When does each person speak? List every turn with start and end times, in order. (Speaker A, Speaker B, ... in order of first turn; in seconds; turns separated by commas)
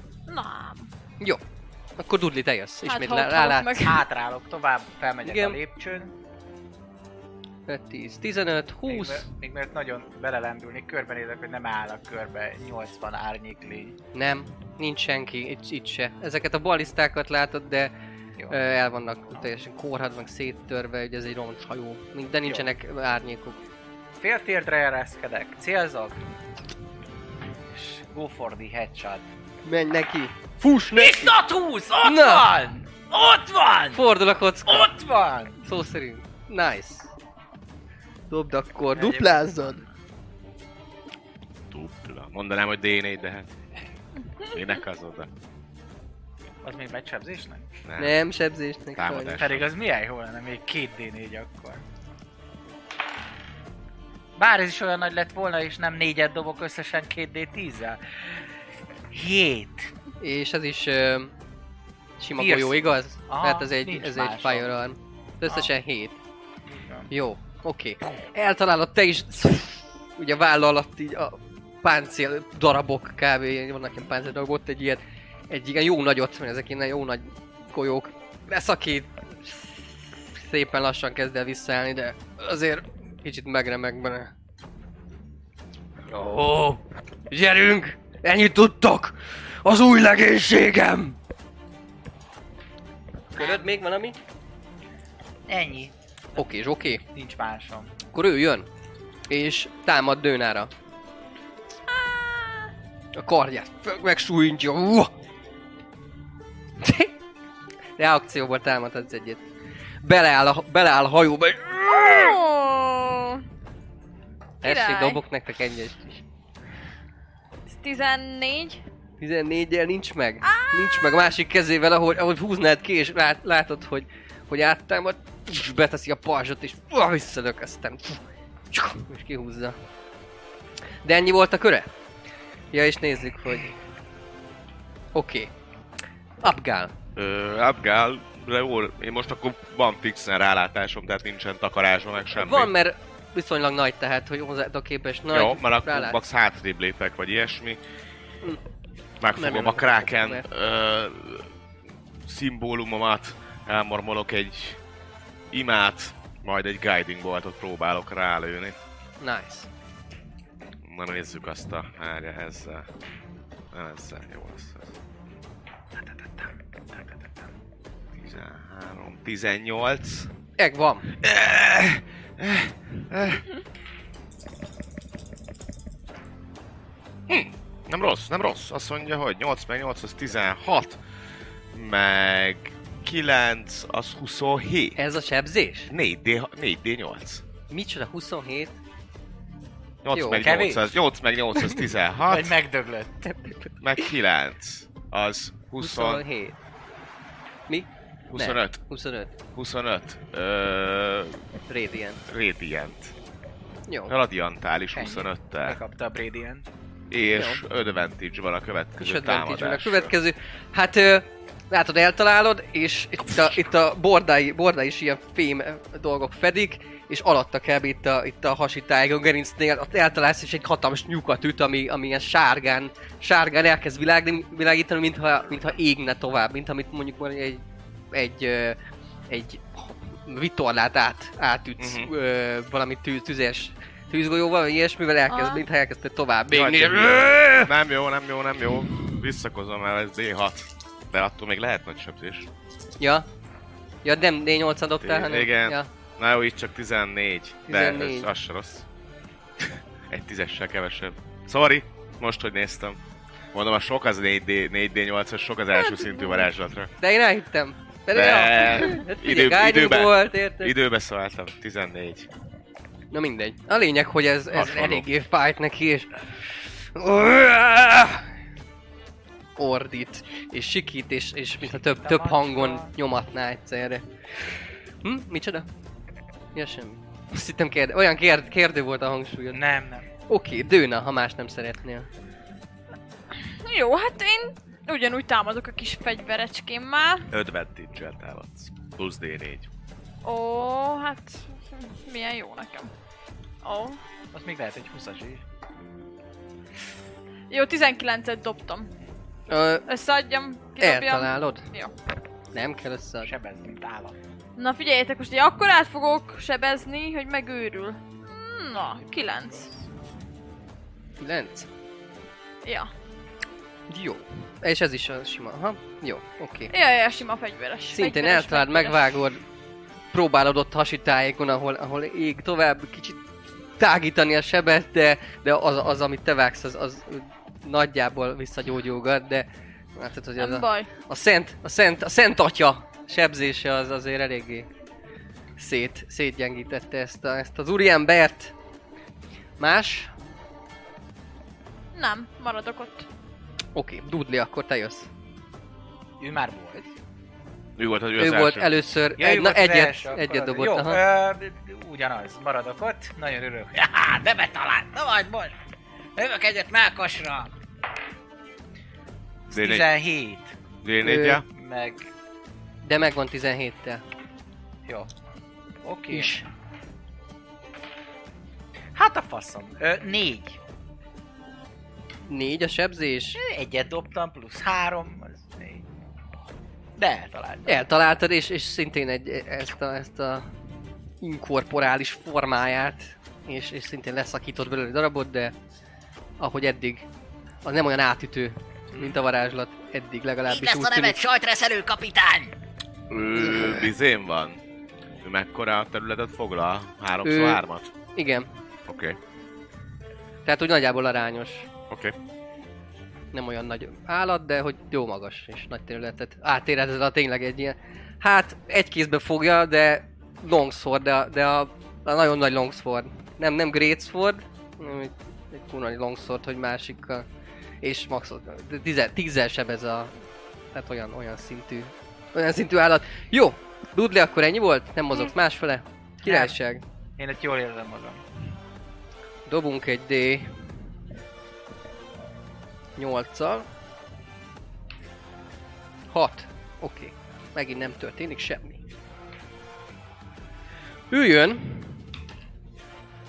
Speaker A: 0.3-0.9, Speaker B: 2.0-3.8, Speaker A: 2.8-4.0, Speaker C: 3.8-6.1, Speaker B: 5.2-5.6, Speaker B: 7.7-9.2, Speaker C: 8.9-13.9, Speaker B: 14.1-17.9, Speaker B: 18.5-23.6, Speaker C: 24.2-26.2, Speaker C: 27.7-29.3, Speaker B: 29.6-31.4, Speaker C: 30.9-34.0, Speaker B: 32.0-32.5, Speaker B: 33.9-34.9, Speaker C: 34.6-35.6, Speaker B: 35.6-37.1, Speaker B: 38.3-39.8, Speaker C: 38.9-39.9, Speaker D: 41.7-43.5, Speaker D: 44.5-45.3, Speaker C: 46.6-47.6, Speaker D: 47.8-48.2, Speaker B: 48.0-49.4, Speaker D: 49.0-49.7, Speaker C: 49.3-51.8, Speaker C: 54.4-58.0, Speaker C: 59.1-59.9, Speaker B: 60.2-61.3, Speaker B: 62.2-66.2, Speaker C: 62.4-64.7, Speaker C: 66.7-67.1, Speaker B: 67.1-79.7, Speaker B: 80.3-84.3, Speaker B: 86.1-91.2, Speaker B: 93.3-94.2, Speaker C: 95.5-96.4, Speaker B: 96.4-97.0, Speaker C: 97.0-97.9, Speaker B: 98.1-98.7, Speaker B: 99.3-100.7, Speaker A: 101.9-102.7, Speaker B: 103.1-105.1, Speaker B: 106.8-107.1, Speaker B: 108.0-109.4, Speaker B: 110.0-112.4, Speaker A: 111.9-113.4, Speaker B: 114.6-116.2, Speaker A: 114.6-115.2, Speaker A: 117.7-118.8, Speaker B: 119.2-129.8, Speaker A: 120.4-121.1, Speaker B: 131.0-131.9, Speaker B: 132.7-133.7, Speaker B: 135.1-135.5, Speaker B: 136.4-136.9, Speaker D: 137.2-142.7, Speaker B: 142.3-146.2, Speaker D: 145.3-147.8, Speaker D: 149.2-151.5, Speaker B: 149.3-150.4, Speaker D: 152.2-154.8, Speaker D: 155.5-158.8, Speaker B: 159.2-159.7, Speaker D: 160.8-162.9, Speaker D: 163.7-164.9, Speaker D: 166.9-167.2, Speaker D: 168.2-170.3, Speaker B: 170.6-171.1, Speaker D: 171.2-173.4, Speaker D: 177.3-181.0, Speaker D: 181.7-185.0, Speaker B: 185.0-185.9, Speaker D: 185.9-187.4, Speaker B: 187.7-188.8, Speaker D: 190.0-192.5, Speaker B: 190.1-190.4, Speaker C: 190.4-190.9, Speaker B: 191.6-191.8, Speaker C: 192.3-193.2, Speaker B: 193.2-194.1, Speaker D: 193.8-196.2, Speaker B: 195.8-196.6, Speaker B: 197.7-199.3, Speaker D: 198.3-198.8, Speaker D: 199.5-201.4, Speaker B: 201.7-202.2, Speaker D: 202.3-203.1, Speaker B: 203.9-204.1, Speaker D: 204.1-205.8, Speaker C: 204.9-206.7, Speaker D: 207.1-210.1, Speaker B: 207.3-207.6, Speaker B: 209.0-228.8, Speaker B: 229.3-237.7, Speaker D: 231.8-232.1, Speaker A: 235.3-235.6, Speaker D: 236.5-242.5, Speaker B: 243.0-243.2, Speaker B: 244.0-245.9, Speaker D: 245.0-248.8, Speaker B: 247.7-248.3, Speaker D: 249.7-253.0, Speaker D: 253.5-256.9, Speaker B: 257.0-260.7, Speaker D: 258.1-262.3, Speaker B: 263.1-266.1, Speaker D: 264.5-265.1, Speaker B: 266.9-268.3, Speaker B: 269.6-274.0, Speaker C: 271.6-272.9, Speaker B: 275.0-275.6, Speaker B: 276.5-279.6, Speaker C: 279.5-280.1, Speaker B: 280.3-282.1, Speaker A: 283.3-287.3, Speaker D: 287.3-289.7, Speaker A: 290.2-292.9, Speaker A: 293.6-294.0, Speaker C: 294.3-295.4, Speaker A: 297.5-298.9, Speaker B: 299.5-299.8, Speaker A: 299.9-301.9, Speaker B: 300.8-301.6, Speaker B: 302.5-303.3, Speaker C: 303.2-304.2, Speaker A: 304.6-309.7, Speaker C: 309.1-309.6, Speaker B: 311.2-311.7, Speaker A: 312.6-312.9, Speaker B: 313.9-316.7, Speaker A: 316.7-319.1, Speaker B: 317.9-319.4, Speaker B: 320.1-323.2, Speaker B: 323.8-334.7, Speaker A: 330.4-330.9, Speaker B: 335.6-338.5, Speaker B: 339.6-340.1, Speaker A: 341.9-343.1, Speaker B: 343.7-345.1, Speaker C: 346.2-346.9, Speaker D: 347.8-348.7, Speaker B: 348.2-351.0, Speaker C: 349.2-355.5, Speaker C: 356.1-357.5, Speaker C: 359.5-360.5, Speaker D: 359.5-359.9, Speaker D: 360.8-361.4, Speaker B: 361.0-361.4, Speaker C: 361.5-362.1, Speaker B: 362.8-364.0, Speaker C: 365.8-366.4, Speaker B: 366.1-366.4, Speaker C: 368.9-370.6, Speaker B: 372.3-373.4, Speaker C: 373.4-375.9, Speaker C: 377.0-377.8, Speaker B: 377.6-380.5, Speaker B: 381.2-385.5, Speaker B: 386.4-387.1, Speaker B: 387.6-391.2, Speaker E: 390.4-392.5, Speaker D: 393.1-394.6, Speaker B: 393.4-393.7, Speaker D: 395.2-397.9, Speaker B: 397.2-397.6, Speaker B: 398.1-398.5, Speaker D: 398.9-399.2, Speaker B: 400.4-401.7, Speaker D: 401.9-402.1, Speaker B: 403.3-417.2, Speaker B: 417.8-420.1, Speaker B: 420.7-426.8, Speaker C: 426.2-426.6, Speaker C: 427.2-428.2, Speaker B: 429.5-430.5, Speaker B: 433.0-433.7, Speaker B: 436.1-438.8, Speaker B: 441.1-442.0